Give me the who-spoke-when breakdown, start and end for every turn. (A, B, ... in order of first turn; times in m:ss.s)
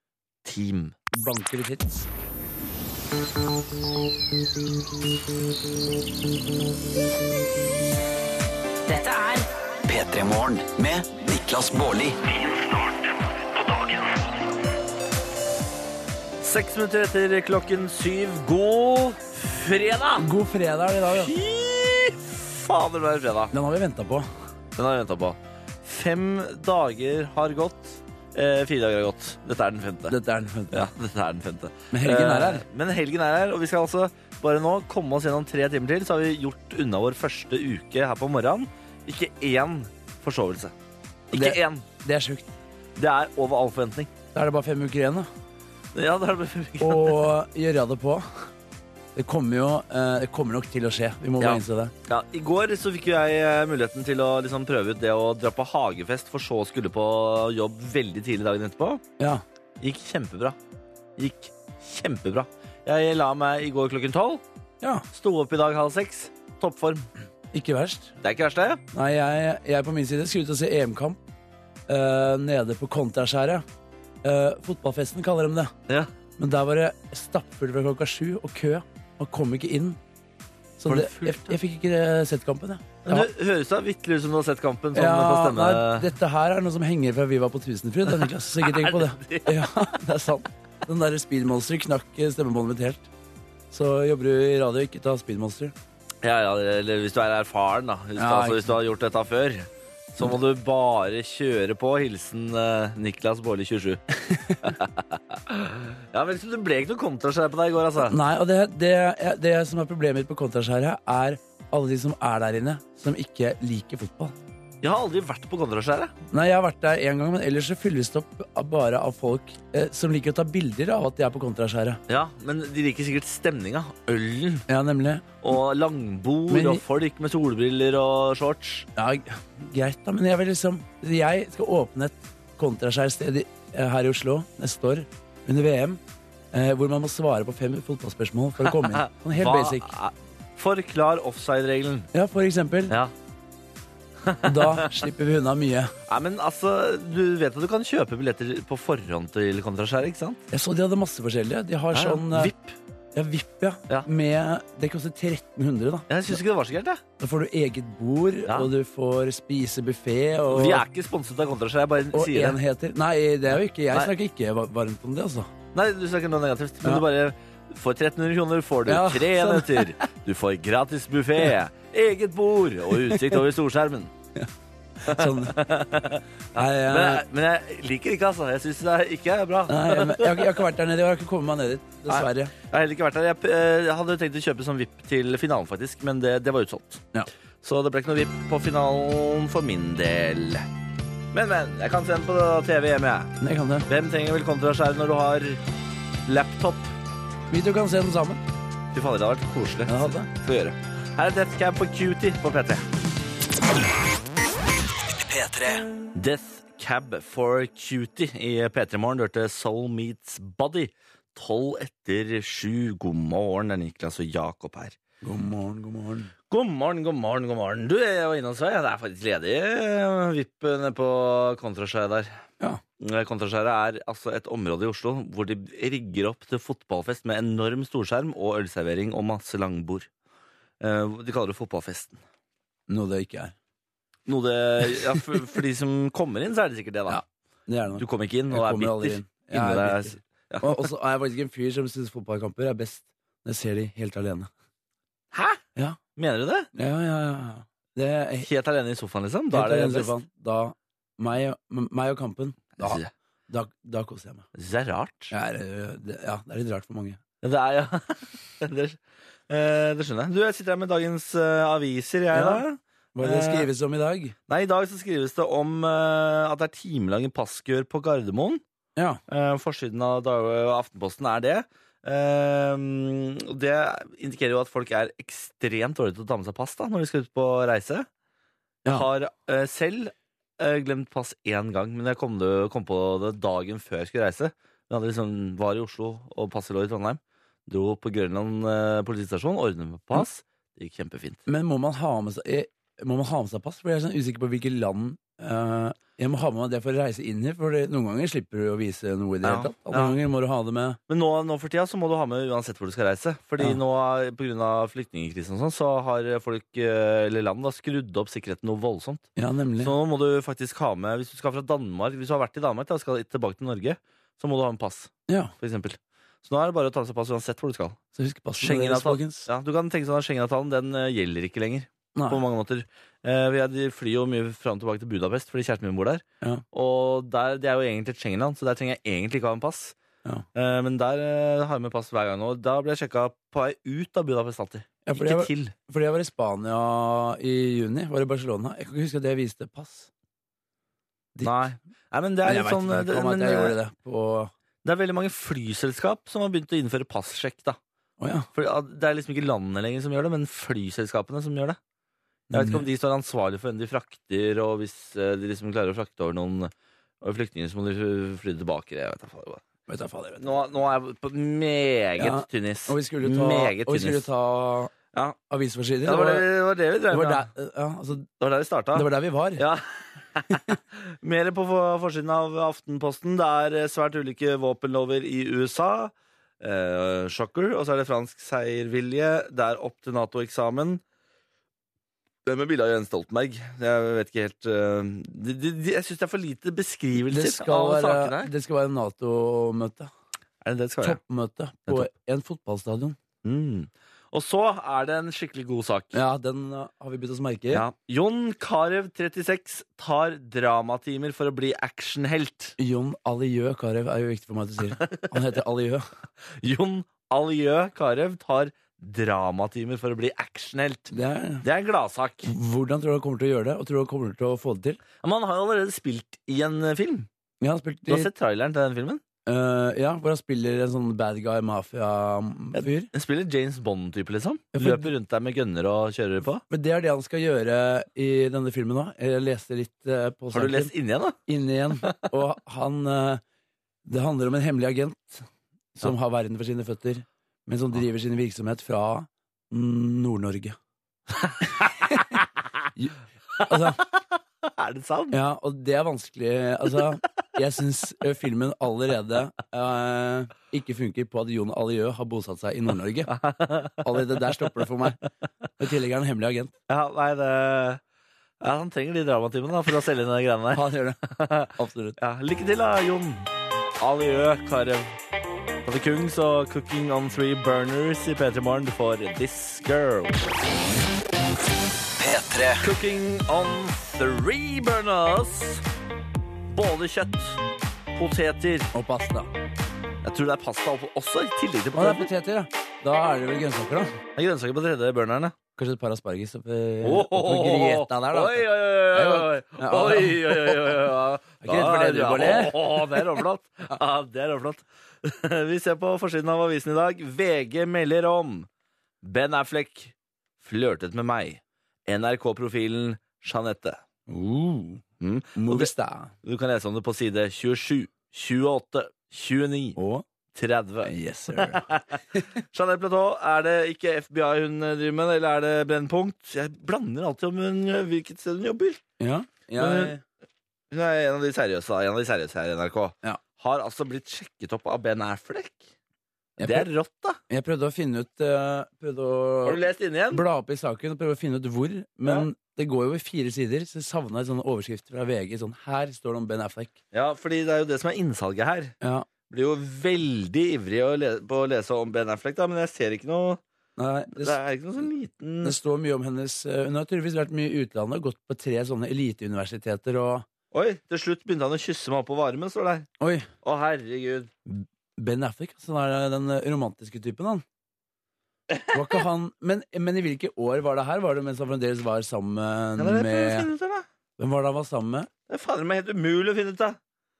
0:00.4-0:01.0 A
0:01.1-0:02.1 B
0:08.9-0:12.9 C
0:16.4-0:20.3 A
0:20.2-0:21.3 B
0:21.1-0:23.5 A
0:23.5-0:24.3 B
0:24.8-0:30.2 A
0:30.1-0:30.9 B
0:30.7-0:40.7 A
0:31.9-0:32.6 B
0:41.3-0:41.8 A
0:41.3-0:42.5 B
0:43.0-0:44.1 A
0:44.3-0:45.3 B
0:45.9-0:47.3 A
0:46.8-0:48.5 B
0:49.1-0:51.9 B
0:51.4-0:59.0 A
0:59.8-1:00.6 A
1:01.2-1:04.4 A
1:05.1-1:07.1 A
1:07.5-1:08.1 B
1:08.2-1:08.8 A
1:08.9-1:11.2 B
1:11.9-1:13.6 B
1:14.2-1:15.7 B
1:16.4-1:20.0 B
1:20.8-1:23.3 B
1:20.9-1:21.6 A
1:23.0-1:26.1 A
1:24.9-1:33.1 B
1:28.1-1:29.6 A
1:33.7-1:35.7 B
1:36.2-1:44.0 A
1:38.2-1:38.7 B
1:44.3-1:44.7 B
1:44.6-1:48.2 A
1:48.0-1:54.4 B
1:54.8-1:56.1 A
1:56.3-2:02.0 B
2:02.1-2:04.6 A
2:04.7-2:05.2 B
2:05.4-2:08.9 A
2:06.5-2:06.8 B
2:09.0-2:16.0 B
2:16.5-2:19.9 B
2:18.6-2:22.1 A
2:22.1-2:22.9 B
2:24.2-2:25.0 A
2:24.4-2:25.9 B
2:26.1-2:30.4 A
2:30.5-2:32.5 B
2:31.9-2:32.7 A
2:33.1-2:36.4 B
2:36.1-2:37.0 A
2:37.2-2:40.8 B
2:40.5-2:42.6 A
2:42.1-2:45.5 B
2:45.7-2:54.1 A
2:48.8-2:50.0 B
2:53.0-2:53.4 B
2:55.0-2:55.6 B
2:55.1-3:00.6 A
2:56.6-2:57.2 B
2:59.7-3:02.5 B
3:02.1-3:07.0 A
3:07.6-3:10.6 A
3:11.3-3:13.3 A
3:13.4-3:13.9 B
3:13.9-3:15.6 A
3:16.2-3:16.9 A
3:17.5-3:18.4 B
3:18.9-3:22.8 A
3:19.9-3:20.3 B
3:25.2-3:25.8 C
3:26.1-3:35.0 A
3:35.2-3:36.3 B
3:36.5-3:42.3 A
3:43.0-3:50.1 A
3:50.8-3:52.2 A
3:52.9-3:53.5 B
3:54.2-3:57.2 A
3:57.1-4:04.5 B
3:58.0-4:00.9 A
4:05.3-4:05.6 A
4:06.2-4:06.7 A
4:06.7-4:08.5 B
4:08.4-4:10.1 A
4:09.5-4:14.4 B
4:12.8-4:13.1 A
4:14.5-4:15.3 A
4:15.3-4:17.2 B
4:17.4-4:19.0 A
4:19.5-4:23.7 A
4:22.3-4:22.6 B
4:23.2-4:24.3 B
4:24.5-4:28.6 A
4:29.3-4:38.1 A
4:38.9-4:51.4 A
4:51.5-5:01.0 B
4:59.4-5:00.2 A
5:01.1-5:09.3 A
5:09.4-5:09.9 B
5:09.8-5:18.0 A
5:15.3-5:15.5 B
5:18.2-5:19.5 B
5:18.6-5:29.9 A
5:22.2-5:22.4 B
5:30.5-5:35.7 A
5:35.0-5:40.1 B
5:41.4-5:41.6 B
5:41.4-5:43.8 A
5:42.4-5:44.5 B
5:44.8-5:47.8 A
5:48.2-5:48.5 B
5:48.5-5:51.8 A
5:52.5-5:52.8 B
5:52.5-5:59.6 A
5:59.9-6:00.6 B
6:00.4-6:04.2 A
6:02.2-6:04.9 B
6:05.5-6:06.4 B
6:06.0-6:07.5 A
6:07.1-6:08.3 B
6:08.4-6:21.0 A
6:08.9-6:09.6 B
6:22.4-6:28.5 A
6:27.2-6:30.1 B
6:30.6-6:31.2 A
6:31.0-6:33.2 B
6:33.4-6:36.2 A
6:36.1-6:37.8 B
6:37.7-6:42.8 A
6:42.8-6:46.1 B
6:45.0-6:45.3 A
6:46.6-6:51.1 A
6:51.1-6:51.6 B
6:51.6-6:52.5 A
6:52.4-6:55.0 B
6:55.2-6:57.3 A
6:57.6-6:58.3 B
6:58.1-6:59.2 A
6:59.4-7:03.1 B
7:02.7-7:06.6 A
7:04.7-7:05.1 B
7:06.7-7:10.9 B
7:10.5-7:11.4 A
7:11.5-7:13.4 B
7:14.0-7:20.8 B
7:21.4-7:21.9 A
7:23.6-7:25.4 A
7:23.7-7:24.0 B
7:25.3-7:33.3 B
7:33.3-7:34.6 A
7:34.0-7:35.2 B
7:35.8-7:36.7 B
7:36.9-7:38.0 A
7:38.6-7:43.5 A
7:40.7-7:42.2 B
7:44.0-7:45.1 A
7:45.8-7:50.4 A
7:52.2-7:52.8 C
7:52.8-7:55.8 A
7:56.7-7:57.6 A
7:58.1-7:58.9 A
7:58.9-7:59.5 B
8:00.2-8:02.3 A
8:01.9-8:04.2 B
8:04.4-8:05.6 A
8:05.8-8:10.8 B
8:07.0-8:18.7 A
8:11.6-8:13.4 B
8:19.2-8:24.0 A
8:24.3-8:25.0 B
8:25.2-8:25.9 A
8:25.5-8:26.3 B
8:26.4-8:30.0 A
8:30.0-8:30.2 B
8:30.5-8:39.0 A
8:31.0-8:32.5 B
8:39.2-8:40.2 B
8:39.8-8:40.1 A
8:40.9-8:45.9 A
8:46.6-8:46.9 B
8:46.6-8:47.4 A
8:47.5-8:49.8 B
8:49.6-8:50.4 A
8:50.3-8:57.0 B
8:57.1-8:58.9 A
8:59.0-8:59.3 B
8:59.5-9:03.6 A
9:04.0-9:04.6 B
9:04.4-9:05.8 A
9:05.6-9:10.4 B
9:10.7-9:13.1 A
9:13.2-9:13.5 B
9:13.6-9:14.5 A
9:14.7-9:17.6 B
9:18.7-9:19.0 A
9:18.9-9:23.7 B
9:23.0-9:24.0 A
9:24.4-9:25.3 B
9:25.5-9:27.0 A